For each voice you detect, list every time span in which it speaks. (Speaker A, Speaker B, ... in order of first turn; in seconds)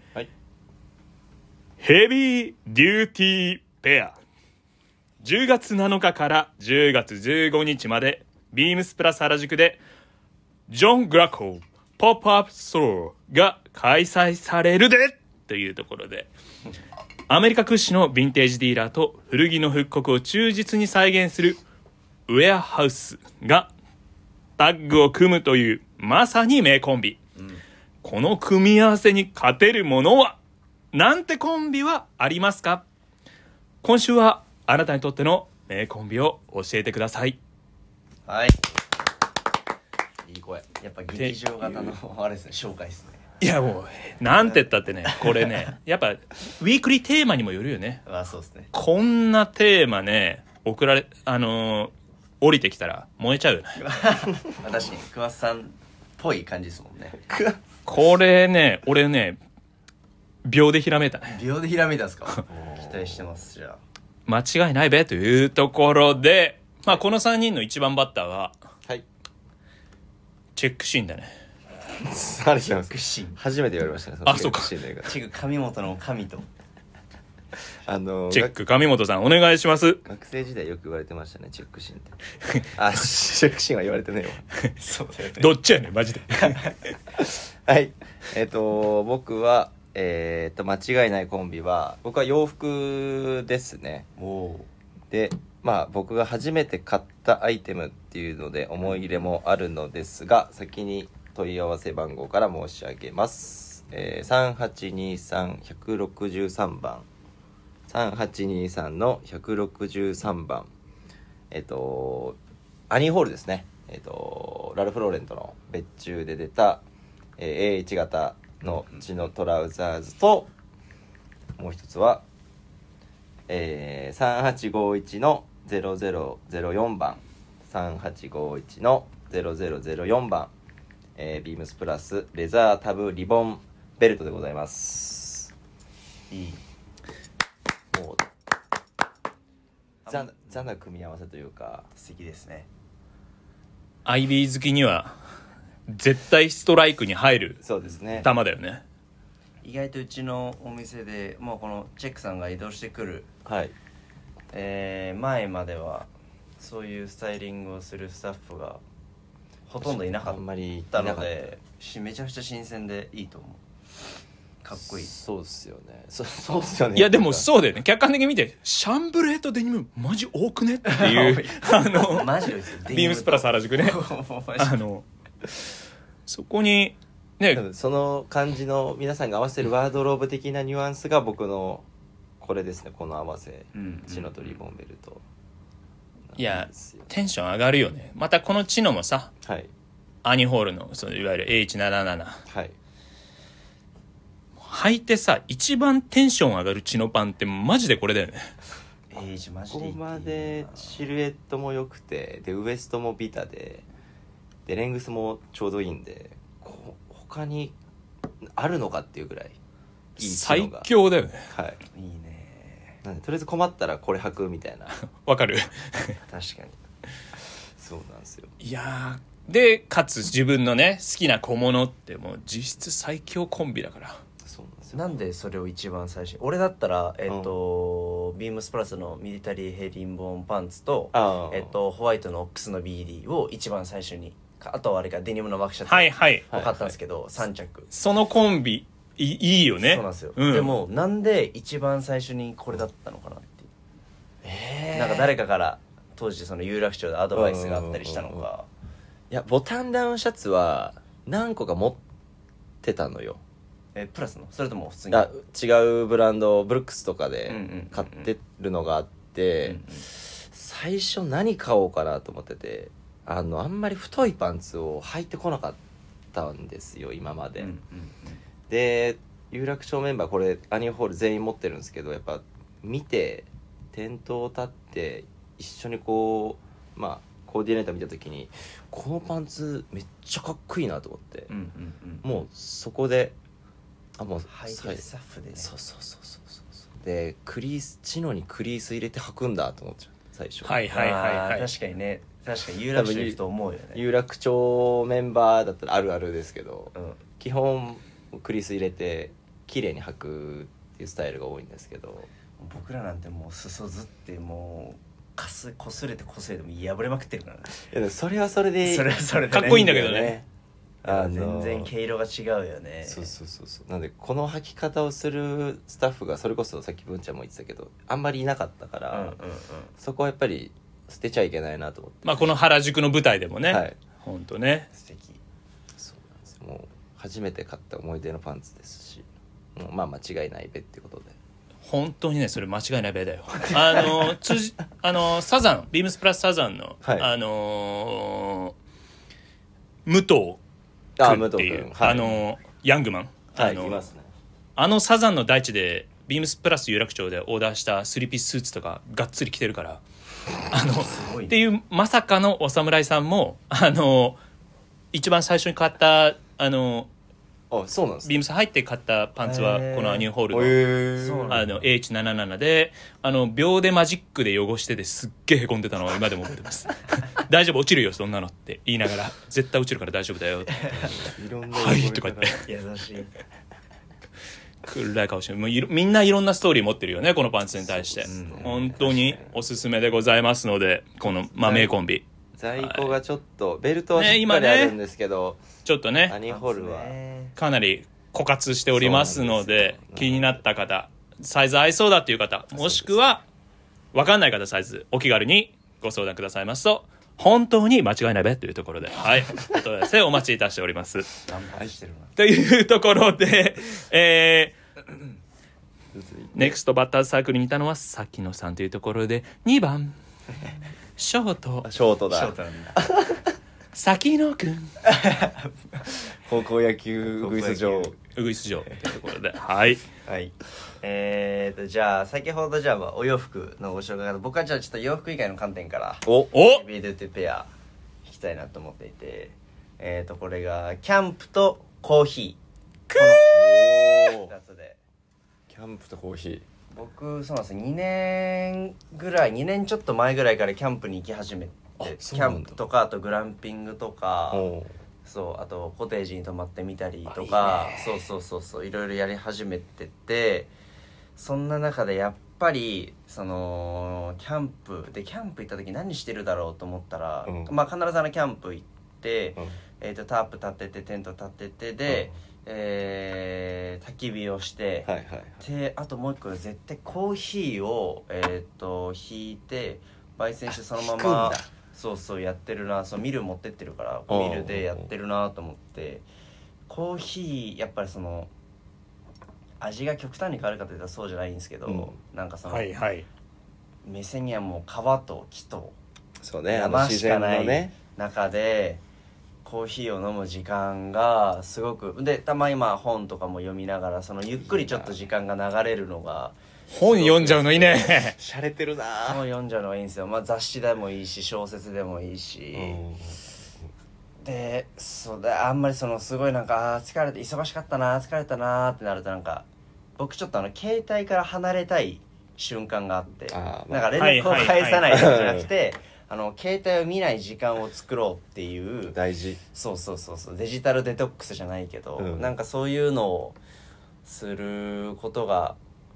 Speaker A: 1.8-4.2, 5.2-9.8, 10.7-16.3, 17.3-21.6, 22.3-23.7, 24.6-27.2, 28.0-30.4, 30.9-32.9, 33.8-37.4, 41.1-41.9, 43.4-48.0, 48.7-53.8, 57.9-59.4, 60.4-61.4, 64.3-68.5, 70.6-71.3, 74.2-74.7, 78.3-80.0, 85.4-86.7, 144.1-145.2, 145.9-147.6, 148.2-148.8, 166.9-172.3, 172.9-174.0, 174.6-175.1, 176.3-177.6, 186.4-189.3, 190.2-192.4, 194.6-198.5, 210.2-211.5, 215.2-216.2, 218.6-224.2, 235.9-236.5, 237.9-240.7, 290.6-291.7, 309.5-310.4, 322.2-324.9, 331.8-338.8, 340.1-340.6, 341.2-344.1, 344.8-350.0, 350.7-354.4, 355.1-357.1, 358.2-360.8, 361.5-370.9, 371.8-372.6, 374.8-382.2, 382.8-383.1, 384.2-385.0, 385.9-386.4, 387.6-393.4, 394.1-401.3, 402.4-404.8, 406.6-410.2, 411.2-411.9, 413.9-414.9, 418.4-420.0, 426.5-426.9, 433.1-433.6, 482.7-483.3, 496.9-498.4, 514.2-515.1
Speaker B: 27.4-27.6, 38.3-38.6, 40.8-43.2, 48.1-48.7, 53.8-57.2, 61.3-63.8, 72.7-73.4, 75.0-76.5, 84.8-85.5, 86.4-86.7, 94.2-94.7, 136.3-136.6, 140.1-140.6, 141.9-142.7, 149.6-153.3, 154.5-156.1, 156.6-158.8, 159.7-160.4, 160.9-163.6, 164.6-165.1, 170.9-174.8, 183.8-184.6, 199.1-200.9, 211.9-213.0, 216.3-216.8, 224.9-237.9, 239.8-243.7, 244.9-248.7, 253.9-255.3, 257.5-258.3, 259.6-260.1, 267.6-268.4, 281.5-282.3, 284.5-285.7, 290.9-294.0, 296.9-297.2, 302.6-307.8, 308.8-309.8, 311.0-313.3, 319.1-319.9, 324.9-325.4, 350.9-351.6, 359.4-360.3, 361.2-361.7, 370.8-371.1, 372.6-373.3, 378.3-378.7, 386.5-387.6, 401.4-402.3, 412.3-413.0, 415.1-416.1, 417.3-418.1, 420.3-427.7, 428.2-432.6, 433.1-435.0, 436.9-444.7, 445.2-450.7, 451.4-465.1, 465.6-476.2, 476.9-478.5, 479.8-483.0, 484.0-486.0, 486.7-489.0, 489.6-496.6, 499.2-503.0, 504.4-519.2, 519.7-523.6, 524.2-525.8
Speaker C: 40.2-40.7, 57.3-57.6, 62.5-63.3, 72.0-75.1, 77.8-78.5, 80.0-84.5, 87.2-94.1, 95.1-107.1, 107.9-110.7, 111.5-112.4, 112.9-116.8, 117.4-120.5, 121.6-122.2, 123.5-130.5, 131.2-135.5, 137.9-138.3, 140.1-141.9, 147.6-148.3, 153.4-153.8, 159.8-161.5, 164.8-167.5, 177.5-181.9, 182.4-185.2, 186.3-187.1, 189.4-189.7, 192.5-192.8, 199.7-203.8, 204.7-207.8, 208.4-209.6, 210.2-210.9, 211.5-211.8, 213.0-215.0, 217.8-218.5, 224.4-225.2, 227.3-227.5, 231.1-231.8, 236.5-236.8, 244.4-245.4, 247.3-248.5, 249.3-252.0, 252.8-253.4, 255.1-265.8, 266.3-267.7, 268.7-281.5, 282.2-283.4, 284.2-285.1, 285.6-290.8, 292.9-293.4, 293.9-302.3, 307.8-310.5, 311.1-311.9, 313.1-319.4, 320.0-322.5, 323.7-324.0, 326.0-331.4, 337.0-337.3, 341.2-342.4, 343.6-344.3, 357.7-358.4, 360.5-361.7, 371.0-372.6, 377.8-379.5, 381.5-381.9, 382.6-385.6, 386.3-387.1, 388.9-390.6, 392.7-393.2, 406.1-406.8, 411.8-413.4, 416.4-418.1, 426.2-426.5, 433.5-434.5, 435.7-436.7, 442.0-442.8, 444.5-444.9, 447.3-448.2, 457.5-457.7, 465.1-465.6, 470.9-471.6, 474.3-475.1, 481.9-482.1, 486.4-487.9, 494.6-495.1, 497.1-499.4, 502.7-503.4, 513.5-515.7, 519.1-519.6, 522.2-522.5